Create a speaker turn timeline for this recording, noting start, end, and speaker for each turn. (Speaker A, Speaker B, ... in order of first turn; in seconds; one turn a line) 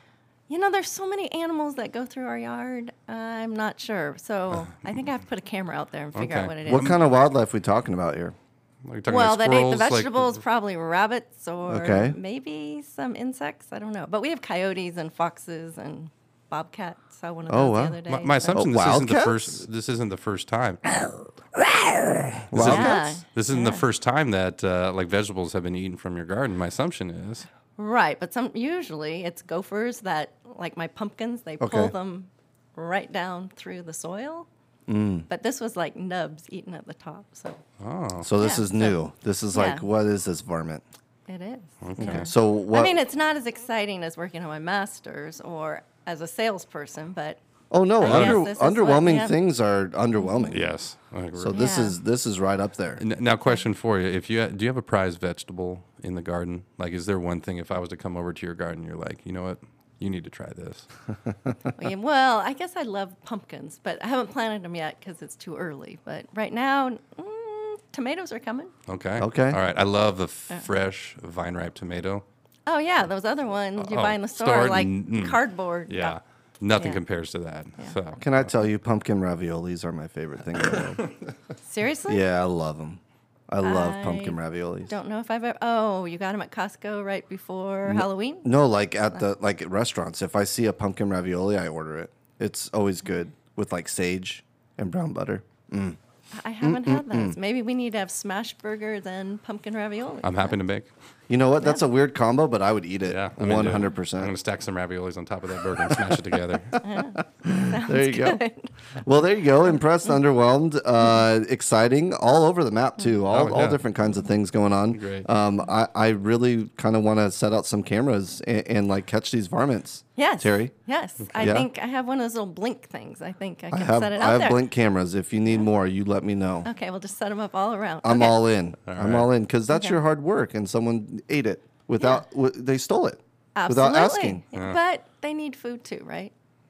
Speaker A: 0.5-7.0
Speaker B: 6.1-7.0
Speaker C: 6.7-8.3
Speaker B: 8.8-10.4
Speaker A: 9.1-18.7
Speaker C: 11.7-12.2
Speaker C: 17.5-19.6
Speaker B: 18.1-20.8
Speaker C: 21.7-23.1
Speaker B: 22.5-27.5
Speaker A: 22.6-23.9
Speaker A: 27.8-34.5
Speaker C: 31.6-31.9
Speaker C: 34.9-35.2
Speaker A: 35.3-37.6
Speaker B: 37.8-38.3
Speaker C: 38.2-40.8
Speaker A: 38.4-39.0
Speaker A: 39.5-39.9
Speaker A: 41.3-47.4
Speaker B: 41.8-42.3
Speaker C: 42.0-43.0
Speaker C: 47.7-50.6
Speaker A: 48.0-49.4
Speaker B: 48.0-48.4
Speaker A: 50.2-50.5
Speaker B: 50.5-51.6
Speaker C: 51.4-53.0
Speaker A: 51.5-51.9
Speaker B: 53.0-60.9
Speaker A: 61.7-68.7
Speaker B: 68.9-72.2
Speaker C: 69.2-69.6
Speaker A: 72.7-76.2
Speaker B: 73.8-78.4
Speaker A: 76.8-77.0
Speaker C: 78.2-81.0
Speaker B: 80.8-81.1
Speaker A: 81.6-82.2
Speaker C: 82.1-84.9
Speaker A: 83.6-88.5
Speaker C: 87.8-96.0
Speaker A: 96.3-100.5
Speaker C: 96.6-97.4
Speaker B: 100.2-100.9
Speaker C: 101.3-104.3
Speaker B: 103.0-106.8
Speaker C: 105.8-106.2
Speaker C: 106.8-108.4
Speaker A: 106.8-108.7
Speaker C: 109.0-120.7
Speaker B: 113.3-113.8
Speaker B: 114.9-115.3
Speaker A: 120.2-124.6
Speaker C: 121.3-121.7
Speaker C: 123.7-126.7
Speaker A: 126.6-128.4
Speaker C: 128.0-134.4
Speaker B: 128.9-129.3
Speaker A: 129.7-130.0
Speaker A: 133.6-136.3